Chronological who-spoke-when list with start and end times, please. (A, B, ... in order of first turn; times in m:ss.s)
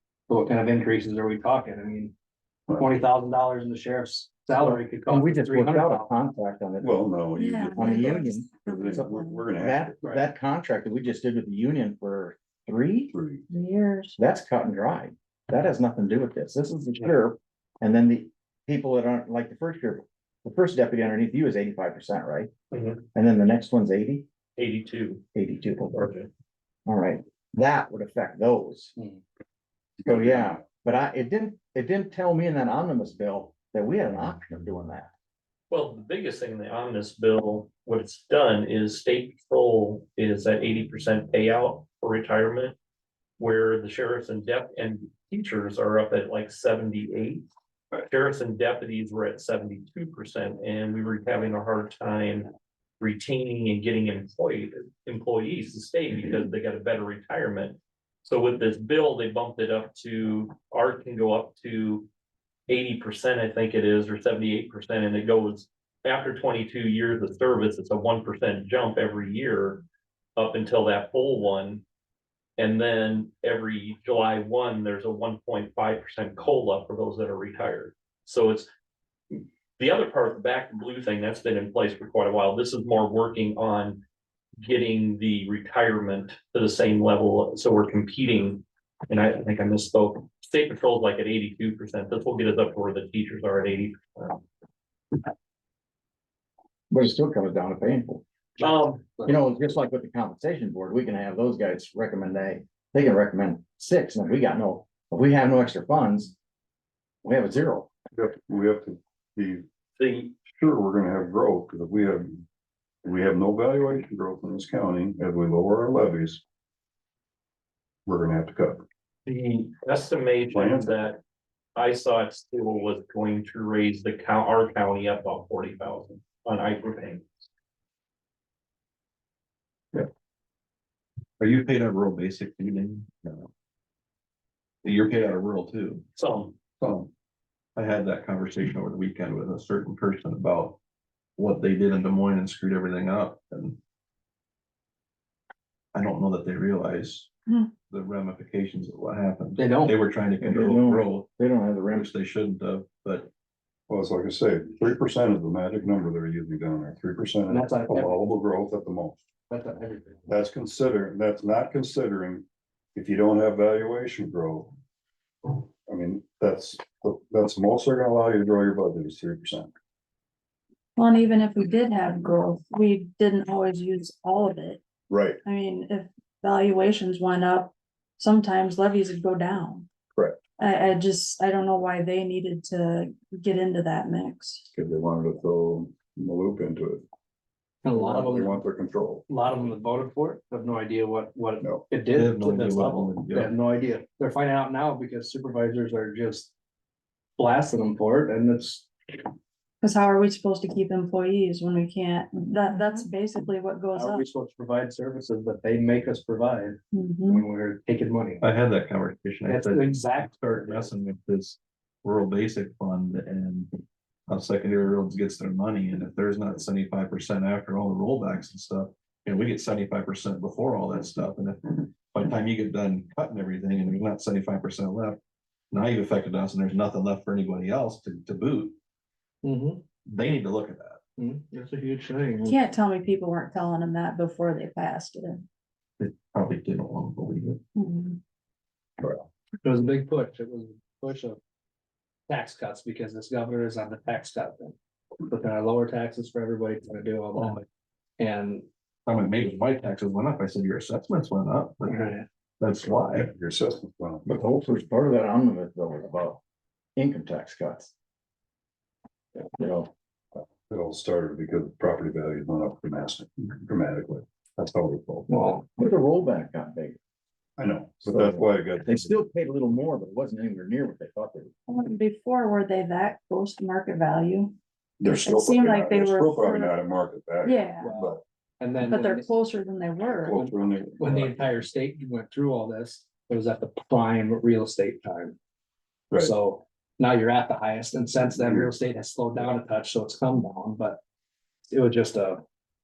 0:00.3-0:02.1 A
0:02.7-0:03.0 B
0:02.8-0:06.2 A
0:04.6-0:07.1 C
0:06.8-0:10.0 B
0:07.4-0:09.4 D
0:07.7-0:13.1 C
0:10.0-0:10.3 A
0:13.1-0:13.4 B
0:13.5-0:14.2 D
0:14.2-0:22.5 C
0:22.7-0:23.0 E
0:23.1-0:24.2 C
0:24.6-0:25.3 E
0:25.3-0:26.1 C
0:25.9-0:26.3 E
0:26.8-0:29.0 C
0:30.0-0:30.5 B
0:30.0-0:35.1 C
0:35.7-0:42.8 E
0:43.4-1:02.1 E
1:02.7-1:09.8 E
1:10.4-1:11.8 E
1:12.6-1:18.7 E
1:19.3-1:24.0 E
1:24.6-1:34.4 E
1:36.9-1:38.2 C
1:38.6-1:39.0 E
1:39.2-1:46.3 C
1:47.2-1:48.0 C
1:48.1-1:52.4 B
1:53.0-1:56.4 B
1:58.0-1:58.8 B
1:59.2-2:01.2 E
2:00.5-2:00.9 B
2:01.7-2:07.4 E
2:11.4-2:13.5 F
2:14.8-2:16.0 F
2:16.2-2:16.6 E
2:16.8-2:17.1 F
2:17.8-2:20.8 F
2:21.4-2:23.8 F
2:25.9-2:27.3 F
2:27.9-2:31.3 F
2:29.6-2:30.0 A
2:30.4-2:32.1 C
2:31.9-2:33.3 F
2:33.9-2:39.2 B
2:37.5-2:38.2 A
2:39.5-2:40.3 A
2:40.3-2:44.7 B
2:45.4-2:49.7 B
2:51.0-2:54.8 D
2:55.1-2:55.4 B
2:55.4-2:59.8 D
3:00.1-3:00.4 B
3:00.6-3:04.6 D
3:04.7-3:07.0 B
3:07.8-3:08.6 A
3:07.9-3:09.7 B
3:09.3-3:16.5 A
3:12.1-3:13.5 F
3:17.4-3:19.2 A
3:19.8-3:24.2 D
3:23.9-3:28.5 A
3:26.9-3:27.5 D
3:28.4-3:33.7 F
3:29.5-3:30.9 A
3:34.3-3:45.2 F
3:45.7-3:48.7 F
3:49.4-3:49.8 A
3:50.0-3:51.0 F
3:51.2-3:52.6 A
3:52.4-3:55.4 D
3:56.0-3:57.6 F
3:57.8-3:58.2 D
3:59.6-4:01.4 A
4:02.3-4:07.6 A
4:07.3-4:07.6 F
4:08.2-4:08.7 A
4:09.0-4:13.3 F
4:11.9-4:12.2 A
4:13.1-4:14.3 B
4:14.2-4:16.4 C
4:17.0-4:17.9 C
4:19.6-4:19.9 C
4:20.5-4:25.3 B
4:25.3-4:25.7 A
4:25.8-4:27.0 C
4:27.6-4:29.1 B
4:28.0-4:31.5 C
4:31.7-4:34.6 D
4:35.0-4:38.2 B
4:35.1-4:36.7 D
4:37.4-4:37.9 D
4:37.8-4:39.3 A
4:38.8-4:40.5 D
4:40.1-4:41.7 B
4:41.0-4:45.4 A
4:46.1-4:46.3 B
4:46.2-4:51.0 A
4:48.4-4:48.7 B
4:51.7-4:52.4 A